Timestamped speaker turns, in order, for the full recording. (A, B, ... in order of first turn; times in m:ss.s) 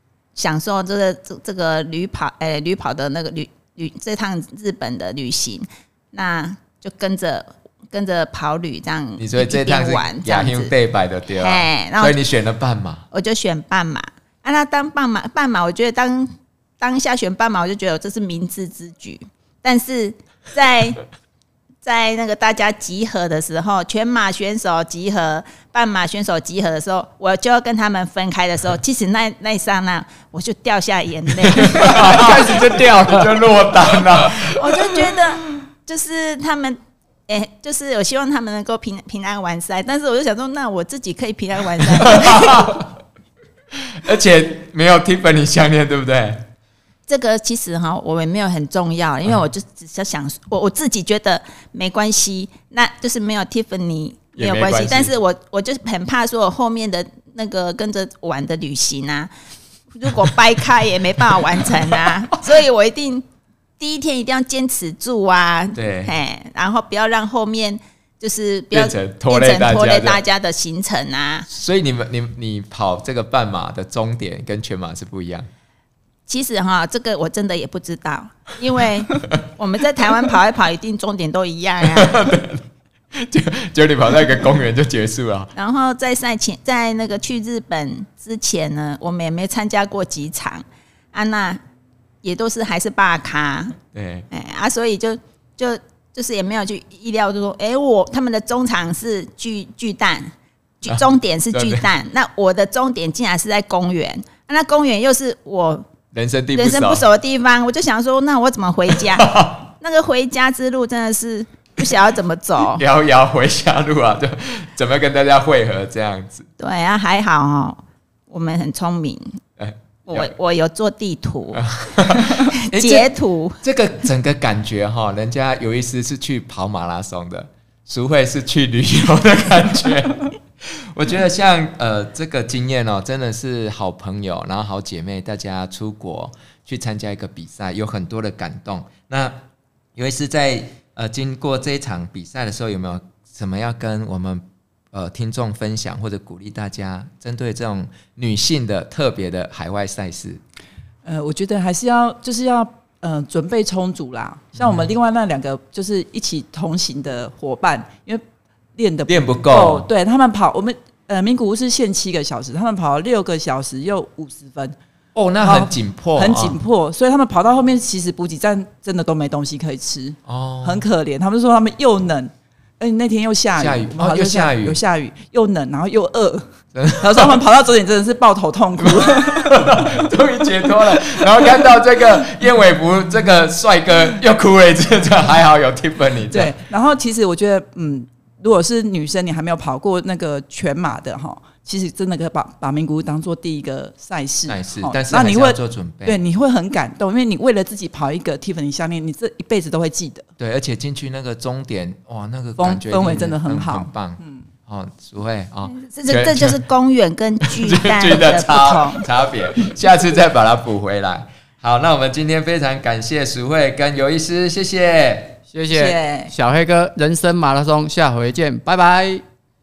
0:00.4-0:10.7 A
0:09.2-0:13.0 B
0:11.3-0:12.2 A
0:13.1-0:21.0 A
0:21.8-0:32.3 A
0:31.4-0:35.0 B
0:31.8-0:33.4 C
0:34.2-0:42.7 A
0:42.0-0:42.9 B
0:43.9-0:46.4 B
0:47.1-0:59.3 A
0:54.4-0:55.1 B
1:00.0-1:03.2 A
1:03.8-1:11.5 A
1:05.8-1:06.1 B
1:08.7-1:10.2 B
1:11.5-1:15.5 B
1:16.3-1:22.2 A
1:21.8-1:22.6 B
1:23.2-1:25.5 B
1:25.6-1:31.6 A
1:32.2-1:33.8 A
1:33.9-1:34.3 B
1:34.3-1:40.3 A
1:40.8-1:45.9 A
1:40.9-1:41.9 B
1:46.1-1:47.1 B
1:46.5-1:52.8 A
1:49.1-1:49.7 B
1:52.7-1:56.5 B
1:56.6-1:59.3 A
1:59.6-2:00.3 B
2:00.1-2:03.6 A
2:01.5-2:19.4 B
2:20.0-2:30.4 B
2:31.0-2:38.2 D
2:34.6-2:34.9 B
2:38.8-2:44.8 D
2:39.1-2:39.9 B
2:45.2-2:46.6 B
2:45.4-2:56.5 D
2:50.3-2:50.9 B
2:53.6-2:54.8 B
2:56.7-2:57.4 B
2:57.0-2:59.8 D
2:58.8-3:06.5 B
3:06.3-3:20.3 D
3:14.5-3:16.2 B
3:20.4-3:26.6 B
3:22.6-3:24.5 D
3:25.7-3:29.0 A
3:27.4-3:35.4 B
3:35.5-3:39.2 C
3:35.7-3:36.3 D